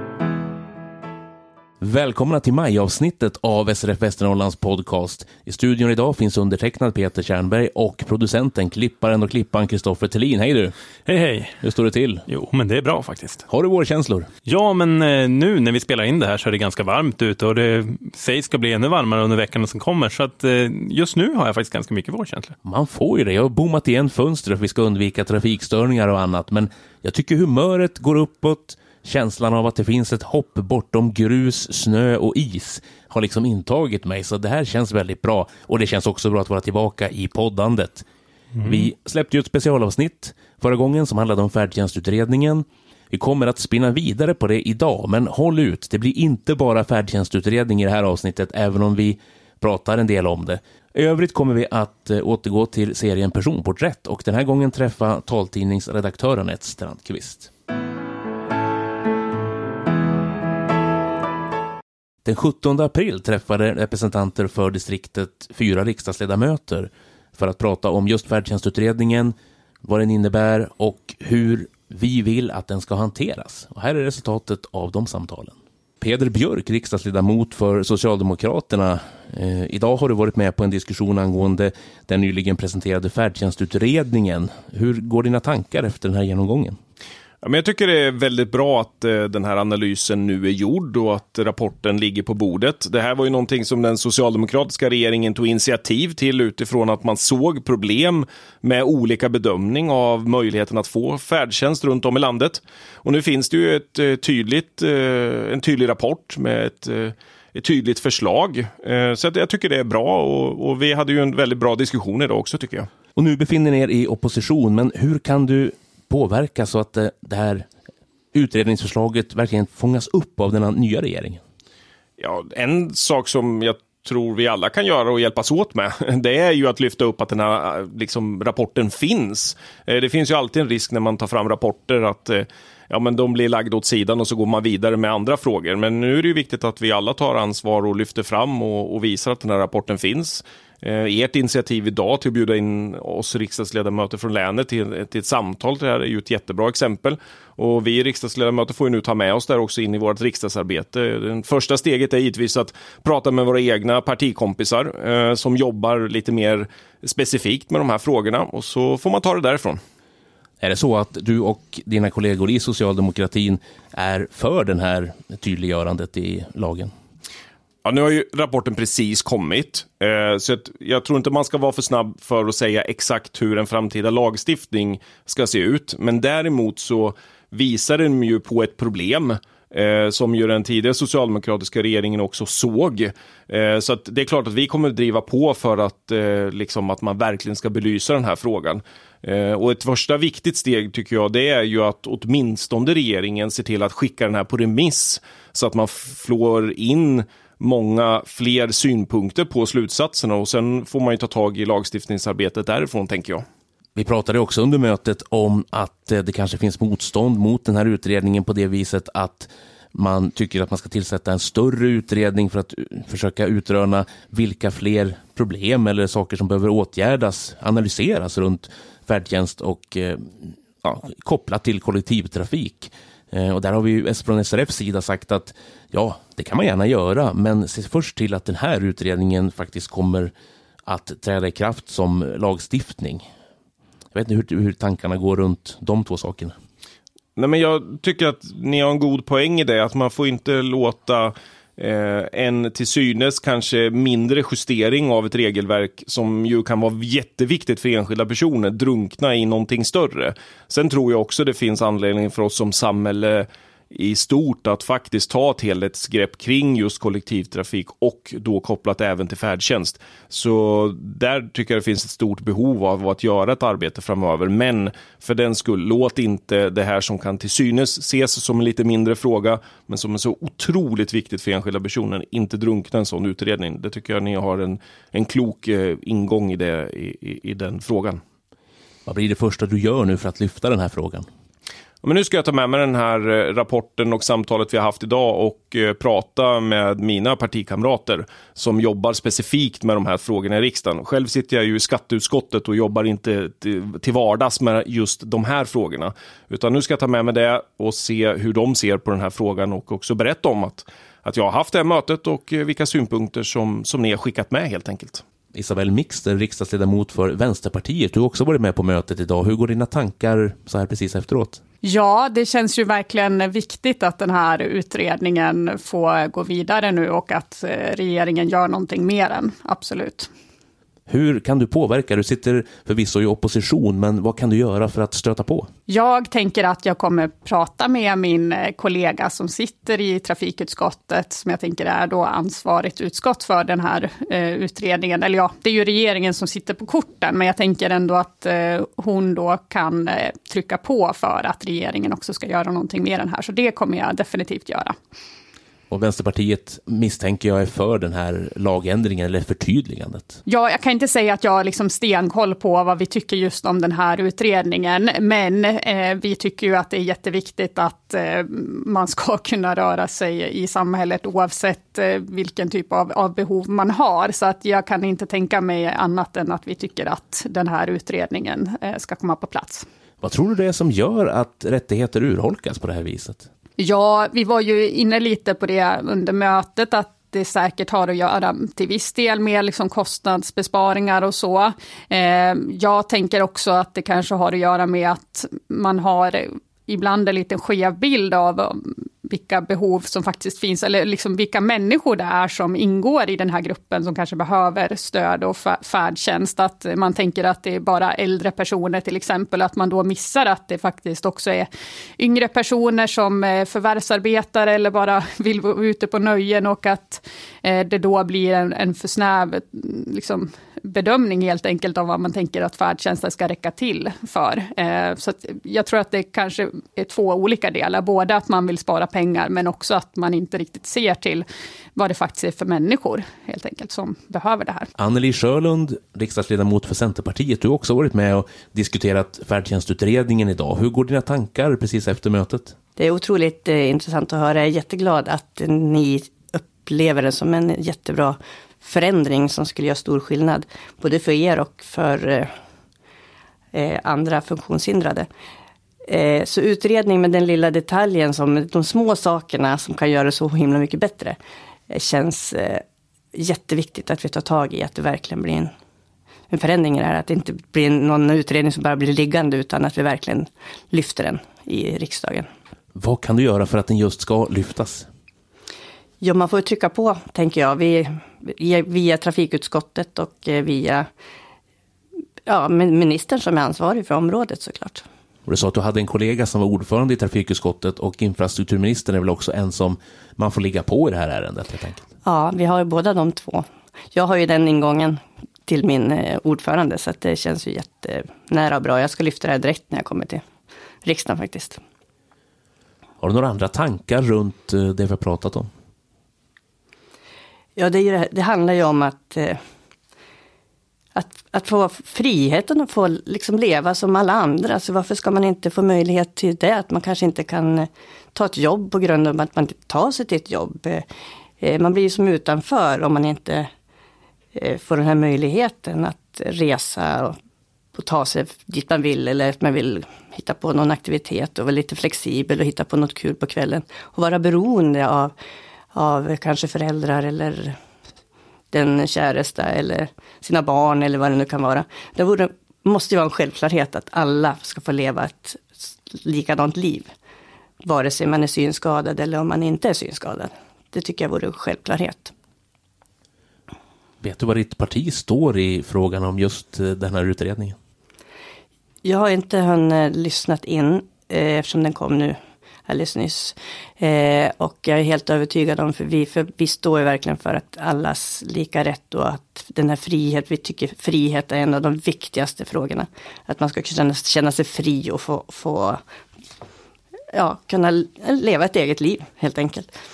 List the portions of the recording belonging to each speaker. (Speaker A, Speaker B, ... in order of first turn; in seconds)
Speaker A: 1.8-10.7, 11.6-12.2, 13.5-14.3, 22.6-38.0, 38.6-57.5, 62.2-86.8, 113.2-117.7, 118.3-121.4, 160.6-166.9, 203.9-230.3, 230.8-233.3, 234.1-236.6, 279.1-281.3, 305.5-311.6, 321.1-325.7, 345.9-350.4, 370.2-373.5, 425.0-432.8, 462.9-465.1, 475.4-482.1, 493.2-495.7, 544.2-547.8
Speaker B: 11.1-11.6, 12.3-13.4, 14.4-22.5, 38.5-38.9
Speaker C: 87.4-112.9, 122.2-159.8, 167.8-203.4, 237.4-278.2, 282.0-305.2
Speaker D: 311.8-320.3, 325.9-344.9, 350.5-369.8, 373.8-424.9
Speaker E: 433.0-442.5, 443.7-445.3, 446.1-451.4, 451.9-455.7, 456.5-462.5, 466.2-471.1, 472.4-475.1, 482.2-490.4, 491.0-491.8, 497.8-499.6, 501.1-511.1, 511.6-513.7, 514.5-517.4, 517.9-525.3, 525.9-527.8, 528.7-537.1, 537.8-542.3, 549.0-566.0, 567.3-569.9